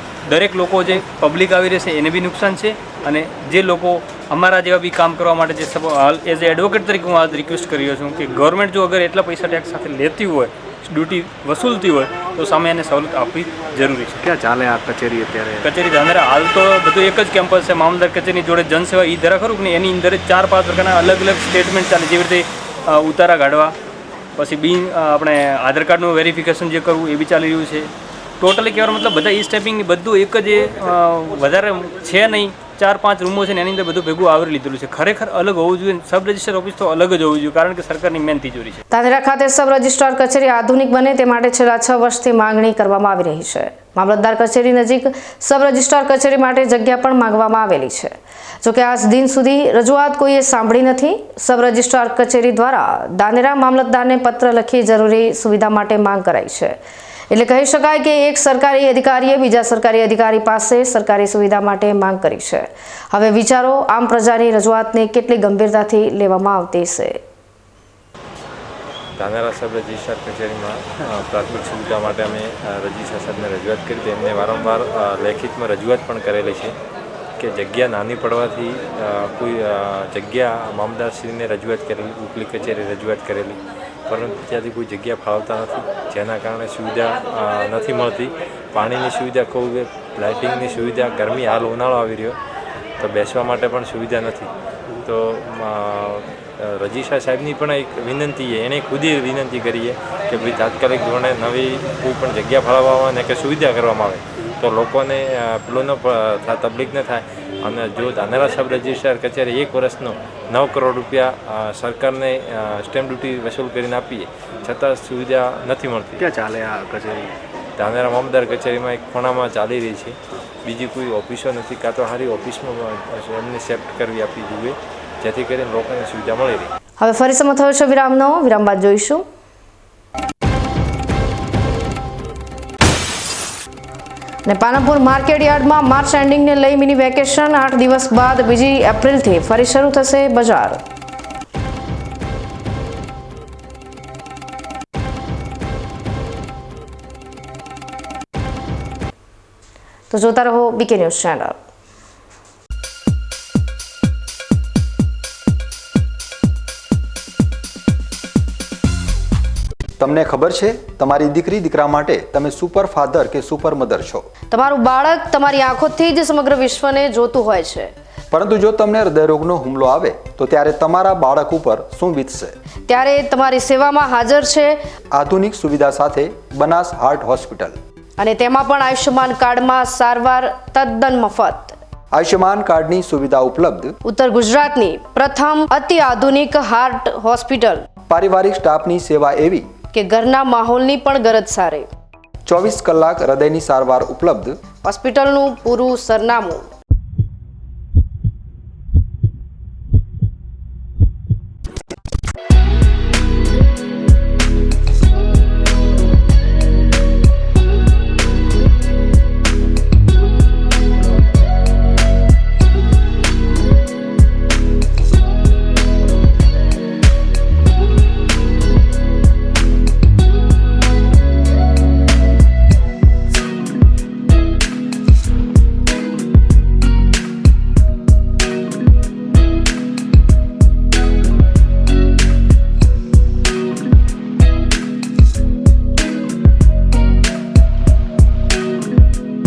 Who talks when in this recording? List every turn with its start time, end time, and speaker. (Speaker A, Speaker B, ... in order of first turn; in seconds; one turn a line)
Speaker A: 0.3-14.2
Speaker B: 14.2-15.7
Speaker A: 15.6-23.7
Speaker A: 24.4-27.9
Speaker A: 28.4-38.8
Speaker C: 38.9-56.8
Speaker C: 57.3-67.2
Speaker D: 69.2-76.7
Speaker D: 77.4-92.4
Speaker D: 93.0-94.5
Speaker D: 95.0-116.1
Speaker B: 116.2-117.2
Speaker D: 117.8-126.7
Speaker C: 127.0-129.2
Speaker C: 134.5-140.8
Speaker C: 150.1-151.6
Speaker E: 160.0-164.3
Speaker C: 164.5-167.9
Speaker E: 168.3-172.5
Speaker C: 172.9-174.8
Speaker E: 175.1-177.8
Speaker C: 178.2-181.8
Speaker E: 182.1-184.0
Speaker C: 184.1-187.9
Speaker E: 188.1-189.7
Speaker C: 189.9-191.9
Speaker E: 192.5-194.6
Speaker C: 194.8-196.7